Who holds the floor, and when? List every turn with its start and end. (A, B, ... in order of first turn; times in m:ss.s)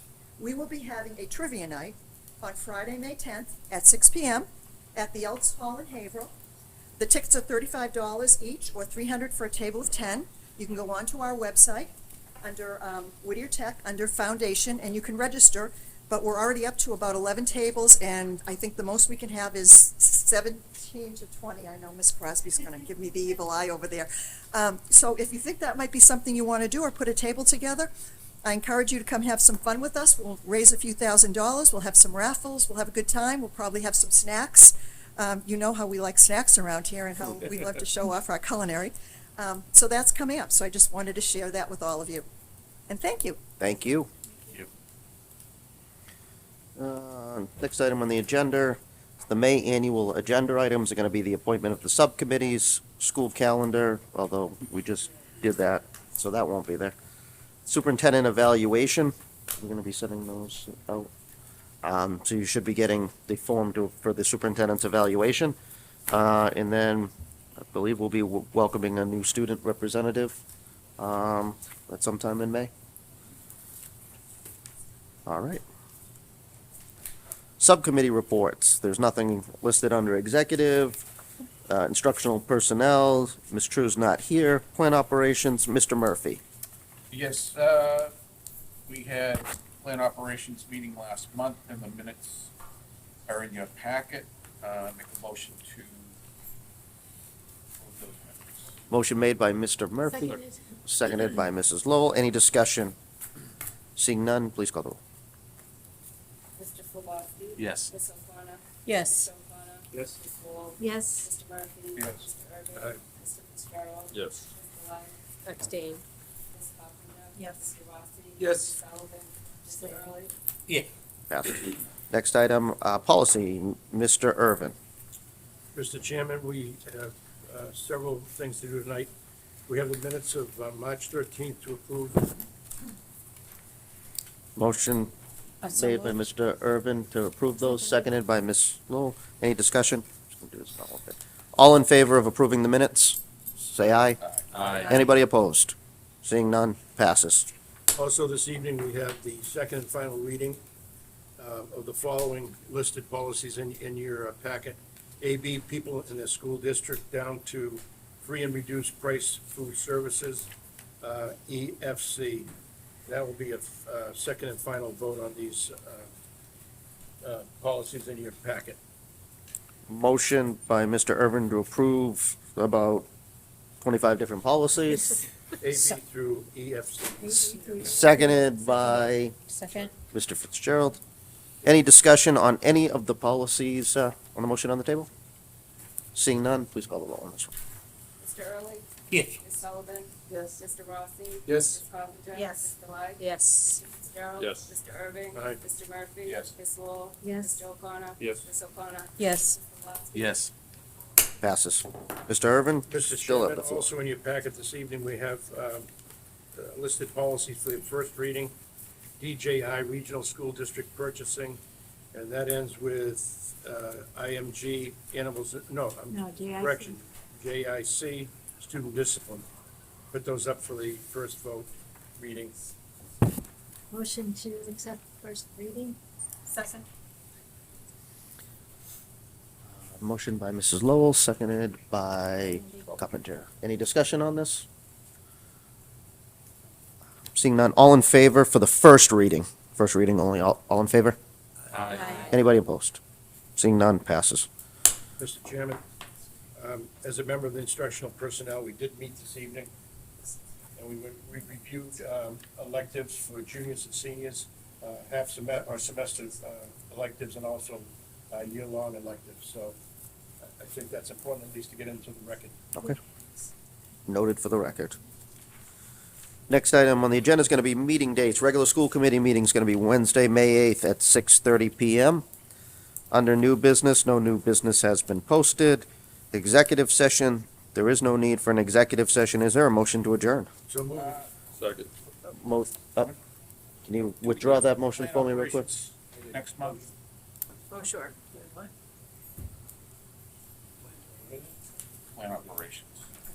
0:00.4-0:06.3 A
0:07.0-0:27.9 A
0:28.4-0:42.3 A
0:42.9-0:43.4 A
0:43.6-0:44.1 B
0:46.8-0:57.0 B
0:57.7-1:01.1 B
1:01.8-1:05.6 B
1:06.1-1:07.1 B
1:07.6-1:10.4 B
1:11.0-1:12.7 B
1:15.2-1:15.6 B
1:17.6-1:21.0 B
1:21.7-1:26.4 B
1:27.1-1:28.1 C
1:28.9-1:32.5 C
1:33.3-1:36.1 C
1:37.8-1:38.7 C
1:38.9-1:43.0 B
1:44.0-1:45.0 B
1:46.6-1:55.1 D
1:47.6-1:47.9 C
1:48.9-1:49.3 E
1:50.8-1:51.3 E
1:54.1-1:54.4 F
1:55.4-1:56.0 E
1:56.5-2:00.3 D
1:57.4-1:57.7 E
1:58.4-1:58.8 F
2:01.3-2:04.7 B
2:05.7-2:09.1 G
2:09.7-2:12.3 G
2:14.6-2:15.1 B
2:15.6-2:16.1 E
2:15.7-2:27.5 B
2:24.5-2:24.9 F
2:27.9-2:30.6 G
2:31.4-2:40.5 G
2:41.0-2:42.5 G
2:43.0-2:46.1 G
2:47.2-2:48.8 G
2:49.9-2:53.1 B
2:53.8-2:55.2 B
2:55.6-2:57.8 G
2:57.2-2:59.9 E
2:57.8-2:59.3 B
3:00.0-3:01.0 B
3:01.6-3:05.1 B
3:06.1-3:07.5 B
3:08.2-3:20.3 D
3:11.5-3:11.8 F
3:12.3-3:13.8 E
3:14.4-3:14.7 F
3:15.3-3:15.6 G
3:16.2-3:16.5 C
3:17.2-3:17.6 E
3:18.2-3:18.4 F
3:19.2-3:19.5 E
3:20.2-3:20.5 C
3:21.4-3:23.9 B
3:22.9-3:25.9 G
3:26.5-3:28.5 G
3:29.2-3:31.6 G
3:32.1-3:39.5 G
3:36.1-3:37.0 E
3:40.1-3:42.6 G
3:43.9-3:46.0 E
3:46.5-3:46.8 E
3:49.8-3:54.7 B
3:57.3-4:01.2 B
4:01.7-4:02.3 C
4:02.2-4:03.0 B
4:03.6-4:04.5 B
4:05.2-4:05.8 G
4:06.6-4:09.7 G
4:10.8-4:19.8 G
4:20.4-4:22.6 G
4:24.1-4:25.0 B
4:26.5-4:32.2 B
4:33.1-4:40.5 B
4:40.7-4:41.2 G
4:41.0-4:41.2 C
4:41.6-4:41.9 F
4:42.3-4:43.1 B
4:43.8-4:45.7 B
4:44.4-4:46.8 C
4:52.2-4:53.0 C